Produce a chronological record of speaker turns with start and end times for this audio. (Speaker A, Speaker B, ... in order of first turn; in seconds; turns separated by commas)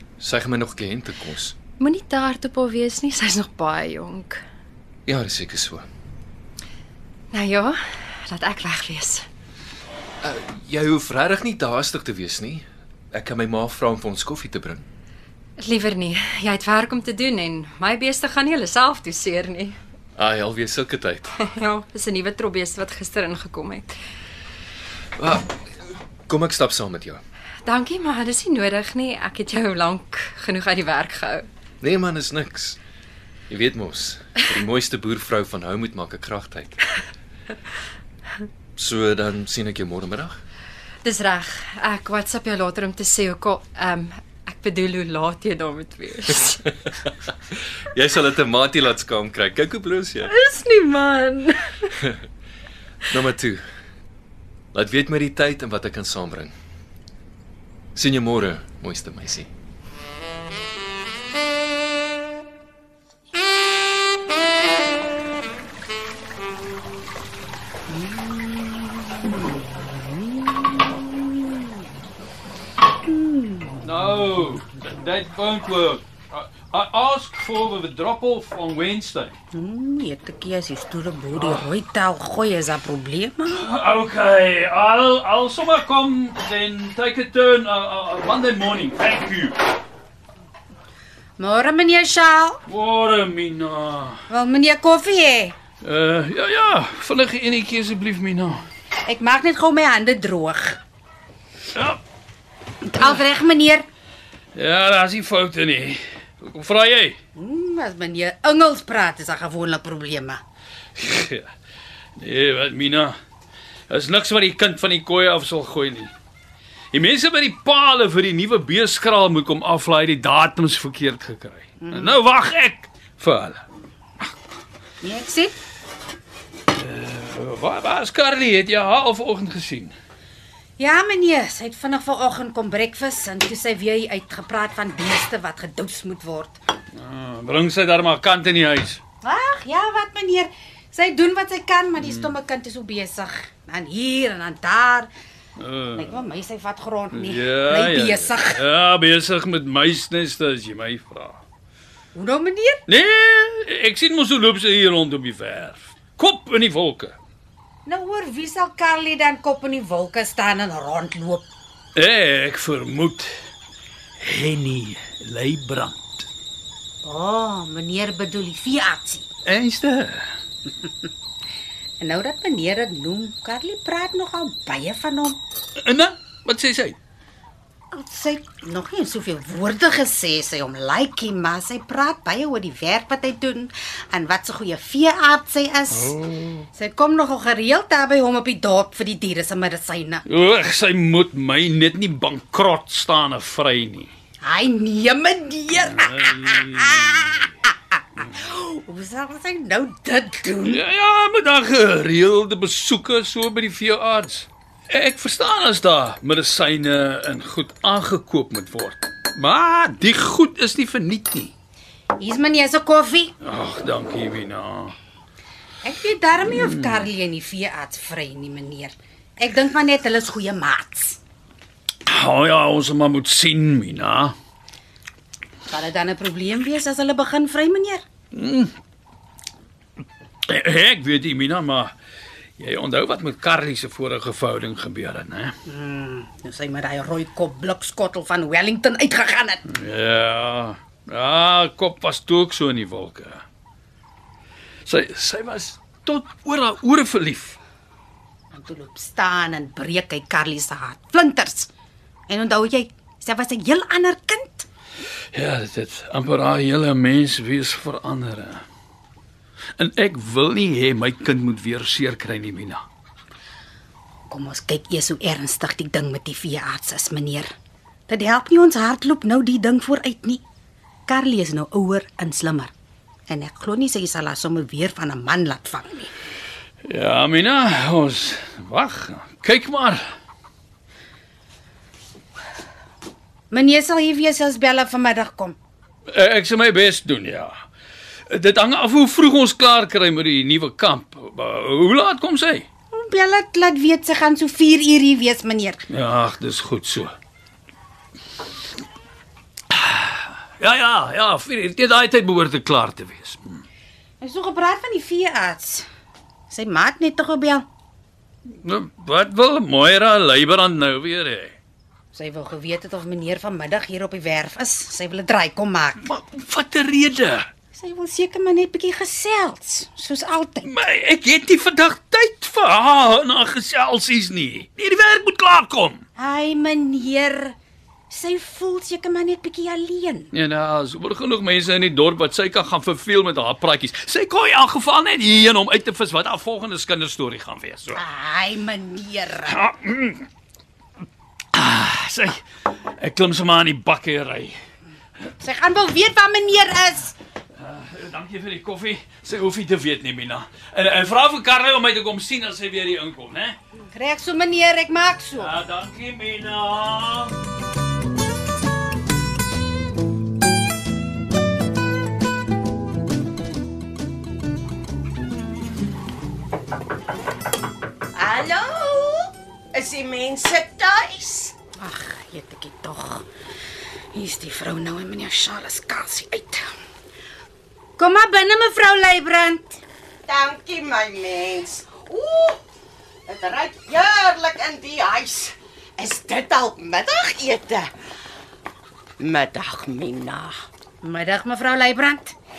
Speaker A: 0.2-1.6, Speaker B: 1.8-4.4, Speaker A: 5.1-5.8, Speaker B: 7.3-9.3, Speaker A: 10.2-14.8, Speaker B: 15.6-19.8, Speaker A: 20.2-21.3, Speaker B: 21.4-23.9, Speaker A: 25.2-25.6, Speaker A: 26.3-27.2, Speaker B: 27.6-31.5, Speaker A: 31.8-32.8, Speaker A: 33.5-36.9, Speaker A: 38.8-40.4, Speaker B: 41.0-46.6, Speaker A: 47.9-50.3, Speaker B: 50.2-51.9, Speaker A: 53.1-53.6, Speaker A: 54.7-56.5, Speaker A: 58.0-59.5, Speaker C: 67.9-71.6, Speaker C: 73.1-73.8, Speaker D: 73.8-79.3, Speaker C: 79.5-83.6, Speaker D: 83.5-89.6, Speaker C: 91.4-92.6, Speaker D: 92.7-94.2, Speaker C: 94.3-95.5, Speaker D: 95.8-98.7, Speaker C: 99.1-100.8, Speaker D: 101.7-102.0, Speaker C: 102.8-103.9, Speaker D: 104.5-107.2, Speaker C: 107.4-110.4, Speaker D: 111.0-111.5, Speaker D: 112.2-113.2, Speaker D: 113.9-116.1, Speaker D: 116.9-123.6, Speaker C: 121.8-122.2, Speaker C: 125.0-125.5, Speaker D: 126.8-129.9, Speaker C: 130.8-136.6, Speaker D: 136.9-139.0, Speaker C: 139.2-145.1, Speaker D: 142.0-142.3, Speaker D: 145.6-146.2, Speaker C: 145.9-148.6, Speaker D: 147.1-151.4, Speaker C: 152.2-152.8, Speaker D: 152.9-157.2, Speaker C: 157.9-161.5, Speaker D: 161.9-163.3, Speaker D: 164.2-166.3, Speaker C: 167.0-169.3, Speaker D: 169.5-170.3, Speaker C: 172.0-175.4, Speaker D: 175.8-177.0, Speaker C: 177.9-186.2, Speaker D: 185.9-186.7, Speaker C: 186.8-190.2, Speaker D: 190.3-194.1, Speaker C: 194.4-197.4, Speaker D: 195.9-197.5, Speaker C: 198.2-200.8, Speaker D: 200.6-211.5, Speaker C: 212.2-213.3, Speaker D: 213.4-214.9, Speaker C: 215.8-221.2, Speaker D: 216.4-217.1, Speaker D: 222.1-224.3, Speaker C: 225.7-228.0, Speaker D: 228.3-228.8, Speaker D: 230.5-231.9, Speaker D: 232.6-235.6, Speaker C: 235.7-239.6, Speaker D: 239.7-243.4, Speaker D: 244.9-247.6, Speaker C: 248.5-251.7, Speaker C: 252.3-254.7, Speaker D: 255.3-258.6, Speaker D: 259.8-262.8, Speaker C: 264.3-267.5, Speaker C: 268.1-270.4, Speaker C: 271.1-272.7, Speaker C: 273.3-276.1, Speaker D: 276.9-280.0, Speaker C: 283.5-285.6, Speaker D: 286.1-287.6, Speaker D: 288.3-292.7, Speaker C: 292.9-295.8, Speaker D: 295.9-297.1, Speaker D: 299.7-303.6, Speaker C: 304.2-305.9, Speaker C: 306.5-307.7, Speaker D: 308.5-311.6, Speaker C: 312.1-316.0, Speaker D: 316.1-317.5, Speaker C: 317.8-320.7, Speaker D: 320.6-326.0, Speaker C: 326.2-327.6, Speaker C: 328.1-330.3, Speaker D: 330.3-338.0, Speaker C: 337.9-339.6, Speaker D: 339.5-340.3, Speaker D: 341.5-342.4, Speaker D: 343.0-344.6, Speaker C: 345.4-347.1, Speaker D: 347.6-353.6, Speaker C: 353.9-355.5, Speaker D: 355.4-357.4, Speaker E: 368.1-371.6, Speaker C: 371.8-373.3, Speaker C: 374.1-376.7, Speaker C: 378.0-379.8, Speaker E: 380.3-382.6, Speaker E: 383.3-387.9, Speaker E: 389.2-390.6, Speaker C: 391.0-392.4